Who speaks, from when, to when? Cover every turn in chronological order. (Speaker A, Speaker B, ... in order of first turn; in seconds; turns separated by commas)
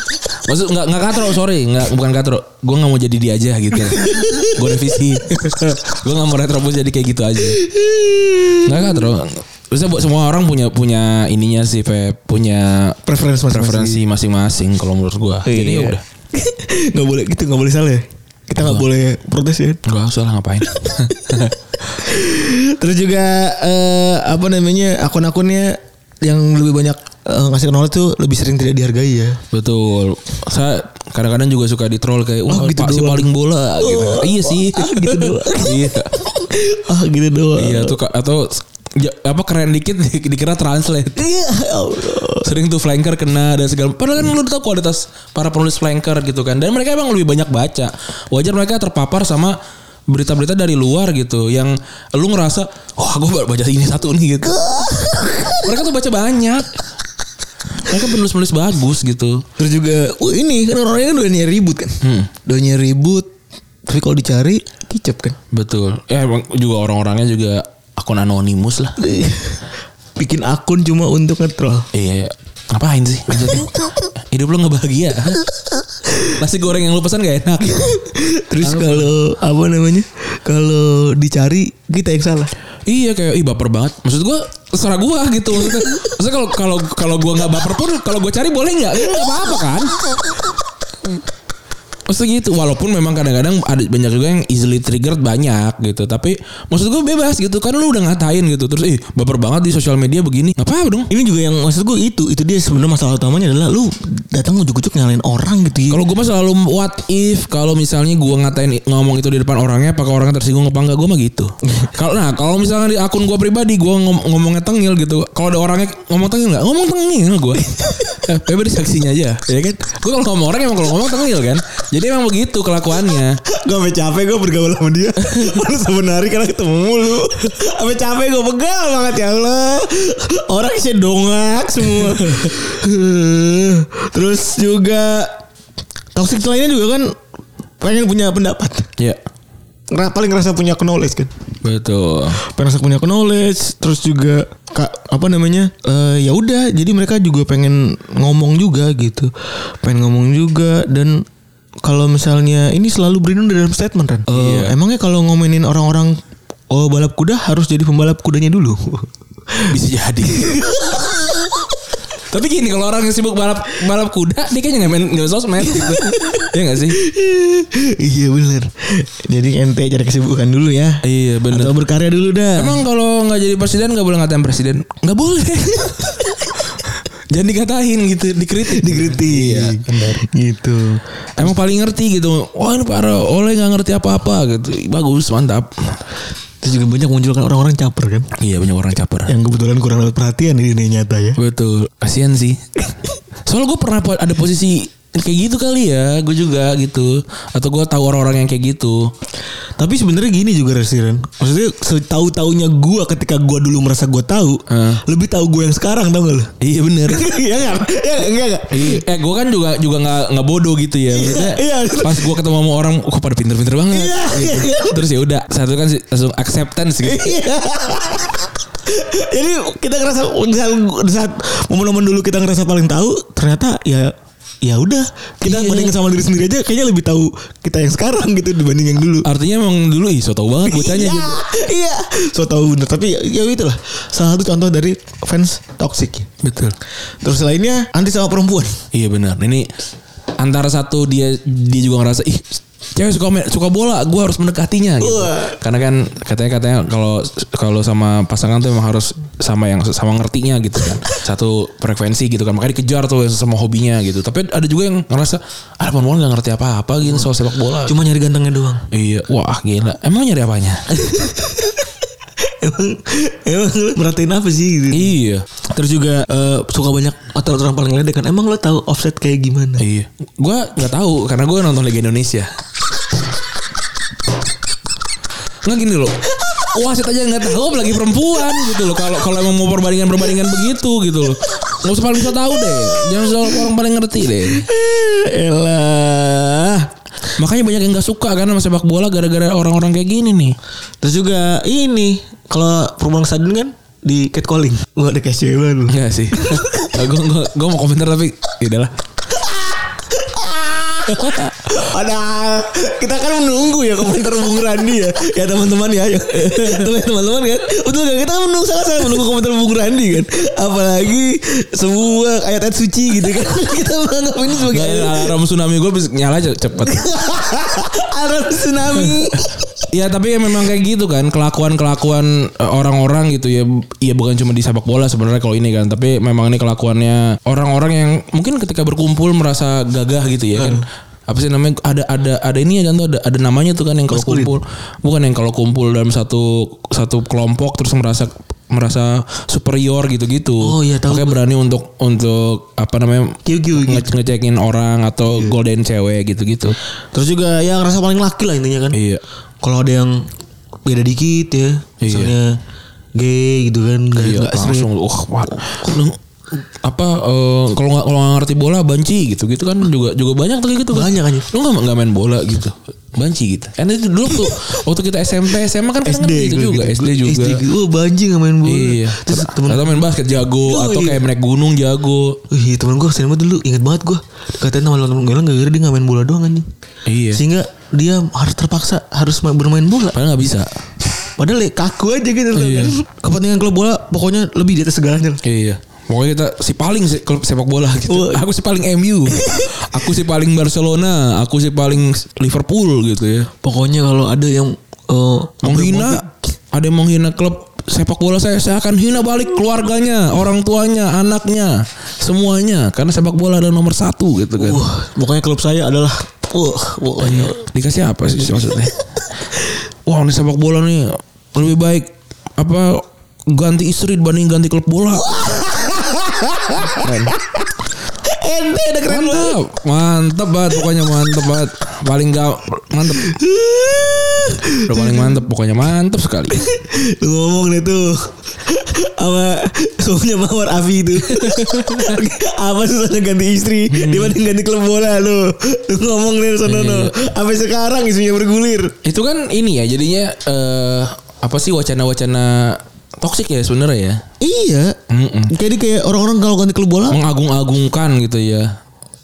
Speaker A: 0.4-7.6, Speaker B: 4.0-4.6, Speaker B: 7.5-9.1, Speaker A: 8.7-13.0, Speaker B: 13.1-14.0, Speaker A: 13.5-16.0, Speaker B: 15.4-19.8, Speaker A: 19.9-21.6, Speaker B: 20.8-29.4, Speaker A: 29.5-36.1, Speaker B: 32.5-38.0, Speaker A: 37.6-41.2, Speaker B: 41.2-42.5, Speaker A: 42.4-49.6, Speaker A: 50.1-54.6, Speaker B: 54.5-55.7, Speaker A: 55.6-56.7, Speaker A: 57.8-59.5, Speaker B: 59.6-63.3, Speaker A: 62.0-62.3, Speaker B: 63.9-65.4, Speaker A: 65.5-69.0, Speaker B: 69.0-69.6, Speaker B: 70.2-71.9, Speaker A: 71.9-75.4, Speaker A: 76.3-78.0, Speaker B: 77.8-82.5, Speaker A: 78.6-79.1, Speaker A: 82.9-90.1, Speaker A: 92.1-101.1, Speaker B: 101.1-106.0, Speaker A: 105.9-123.4, Speaker B: 123.5-135.4, Speaker A: 132.2-132.5, Speaker B: 136.2-137.1, Speaker B: 137.8-138.9, Speaker B: 139.9-141.3, Speaker A: 141.6-142.4, Speaker B: 142.4-149.3, Speaker B: 149.8-151.2, Speaker B: 151.8-156.2, Speaker A: 154.3-154.8, Speaker B: 156.7-159.7, Speaker A: 159.7-160.6, Speaker B: 160.3-161.4, Speaker A: 162.3-167.0, Speaker B: 165.7-172.8, Speaker A: 171.0-171.8, Speaker A: 172.6-180.2, Speaker B: 178.7-181.0, Speaker A: 181.4-186.0, Speaker B: 186.6-188.3, Speaker A: 188.4-189.3, Speaker B: 189.3-191.4, Speaker A: 191.4-192.8, Speaker A: 193.5-199.1, Speaker B: 199.8-206.5, Speaker A: 204.7-205.0, Speaker A: 206.6-207.3, Speaker B: 207.1-209.0, Speaker A: 208.7-217.4, Speaker B: 211.1-212.4, Speaker B: 213.9-215.0, Speaker B: 217.0-229.3, Speaker A: 225.4-226.0, Speaker A: 229.2-231.4, Speaker B: 230.7-236.3, Speaker A: 236.4-236.8, Speaker B: 237.2-238.8, Speaker A: 238.9-239.7, Speaker A: 240.4-258.0, Speaker B: 245.0-245.6, Speaker B: 257.8-258.9, Speaker A: 258.9-260.9, Speaker B: 260.9-261.9, Speaker B: 262.4-265.2, Speaker A: 264.9-265.5, Speaker B: 265.7-269.8, Speaker A: 269.8-272.5, Speaker A: 275.6-284.7, Speaker B: 284.5-286.9, Speaker A: 287.4-290.6, Speaker B: 291.0-296.9, Speaker A: 295.9-298.9, Speaker B: 299.3-315.3, Speaker A: 306.5-306.8, Speaker A: 314.6-317.1, Speaker B: 316.8-319.8, Speaker A: 319.9-346.8, Speaker B: 330.6-330.9, Speaker B: 334.1-334.5, Speaker B: 340.6-341.4, Speaker B: 343.4-344.1, Speaker B: 347.1-349.0, Speaker A: 348.9-349.2, Speaker B: 349.6-350.3, Speaker B: 350.9-352.6, Speaker A: 352.0-352.4, Speaker B: 353.1-354.9, Speaker A: 354.2-356.2, Speaker A: 356.8-367.6, Speaker B: 360.9-361.5, Speaker B: 366.1-370.1, Speaker A: 368.6-372.4, Speaker B: 370.6-371.3, Speaker B: 372.5-376.7, Speaker A: 377.1-377.4, Speaker B: 377.3-380.2, Speaker A: 380.1-380.7, Speaker B: 381.4-385.4, Speaker A: 382.5-383.0, Speaker A: 385.4-393.5, Speaker B: 388.1-388.4, Speaker B: 389.3-389.8, Speaker B: 393.6-396.4, Speaker A: 395.6-404.8, Speaker B: 404.6-407.6, Speaker A: 407.2-408.9, Speaker A: 410.1-415.5, Speaker B: 415.2-417.7, Speaker A: 417.0-417.3, Speaker B: 418.2-419.6, Speaker A: 419.1-423.4, Speaker B: 423.1-425.2, Speaker A: 424.9-426.6, Speaker B: 426.5-439.0, Speaker A: 431.2-432.2, Speaker A: 433.9-434.4, Speaker A: 436.6-437.1, Speaker A: 439.0-444.2, Speaker B: 444.4-445.0, Speaker A: 445.1-445.5, Speaker B: 445.5-447.2, Speaker A: 447.1-448.7